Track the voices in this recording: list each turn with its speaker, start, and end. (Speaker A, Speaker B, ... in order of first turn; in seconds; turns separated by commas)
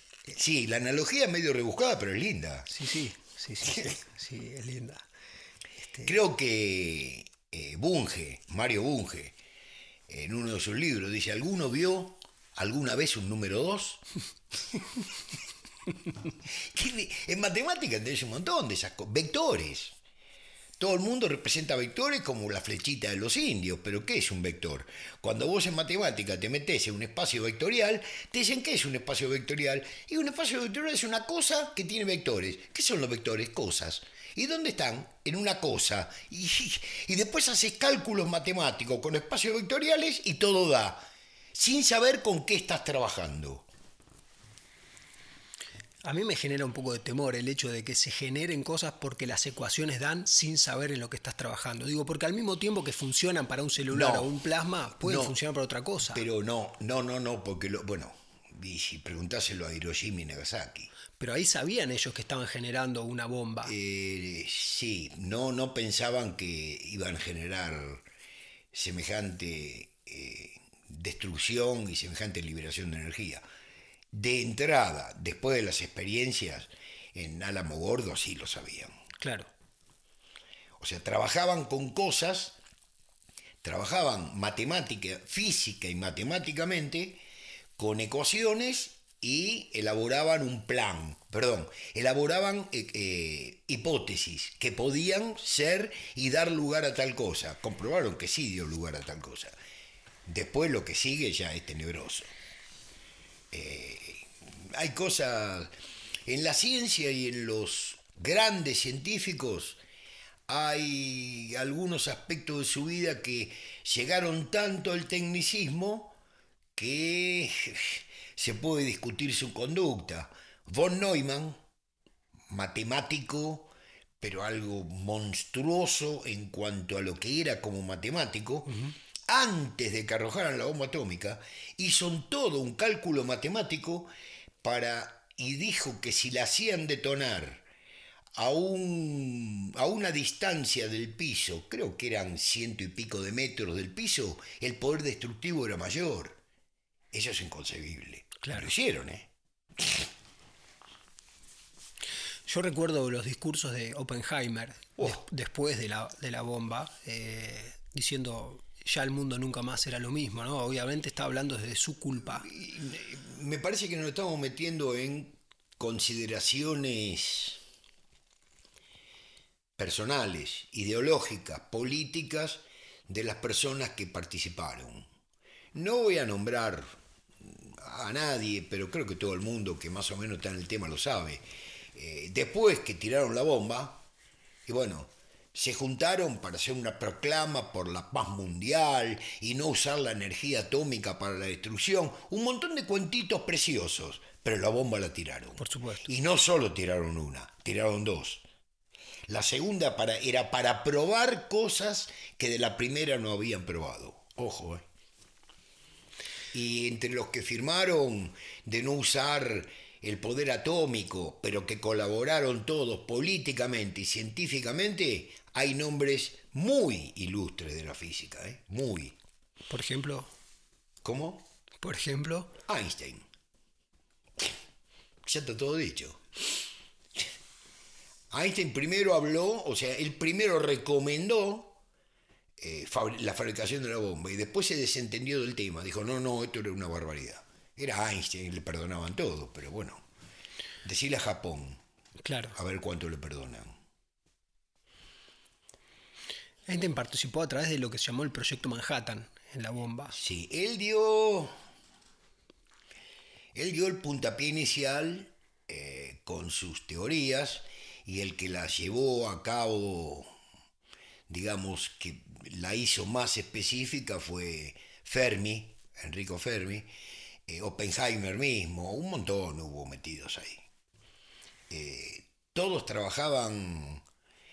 Speaker A: 0.3-2.7, Speaker B: 2.7-5.1, Speaker A: 6.0-9.3, Speaker A: 10.1-14.0, Speaker A: 16.4-19.9, Speaker A: 20.8-43.7, Speaker B: 46.0-56.2, Speaker A: 53.9-54.3, Speaker A: 55.0-55.4, Speaker A: 56.1-60.9, Speaker B: 61.2-63.7, Speaker A: 63.6-68.0, Speaker A: 68.7-73.4, Speaker A: 74.1-78.9, Speaker B: 79.2-79.5, Speaker A: 80.8-82.6, Speaker A: 83.6-87.2, Speaker A: 87.8-99.5, Speaker A: 100.3-102.3, Speaker A: 103.5-105.7, Speaker A: 106.3-109.8, Speaker A: 110.5-116.1, Speaker A: 116.8-121.6, Speaker A: 122.5-128.7, Speaker B: 128.7-128.9, Speaker A: 129.3-134.1, Speaker A: 134.6-137.6, Speaker A: 138.3-146.4, Speaker A: 147.1-150.1, Speaker B: 148.4-148.7, Speaker B: 152.5-162.5, Speaker A: 162.4-167.6, Speaker A: 169.8-175.1, Speaker A: 175.7-181.4, Speaker A: 181.9-184.0, Speaker A: 184.7-198.4, Speaker B: 195.6-196.1, Speaker A: 199.3-204.8, Speaker A: 206.5-219.2, Speaker B: 219.7-220.3, Speaker A: 221.0-221.4, Speaker B: 221.8-222.5, Speaker A: 222.7-223.2, Speaker A: 225.2-226.6, Speaker A: 228.3-231.8, Speaker A: 232.6-240.0, Speaker A: 240.8-241.8, Speaker B: 242.2-242.6, Speaker A: 242.6-243.7, Speaker B: 246.7-250.2, Speaker A: 250.1-251.5, Speaker A: 253.5-260.3, Speaker A: 261.3-266.9, Speaker A: 267.5-270.6, Speaker A: 271.7-274.0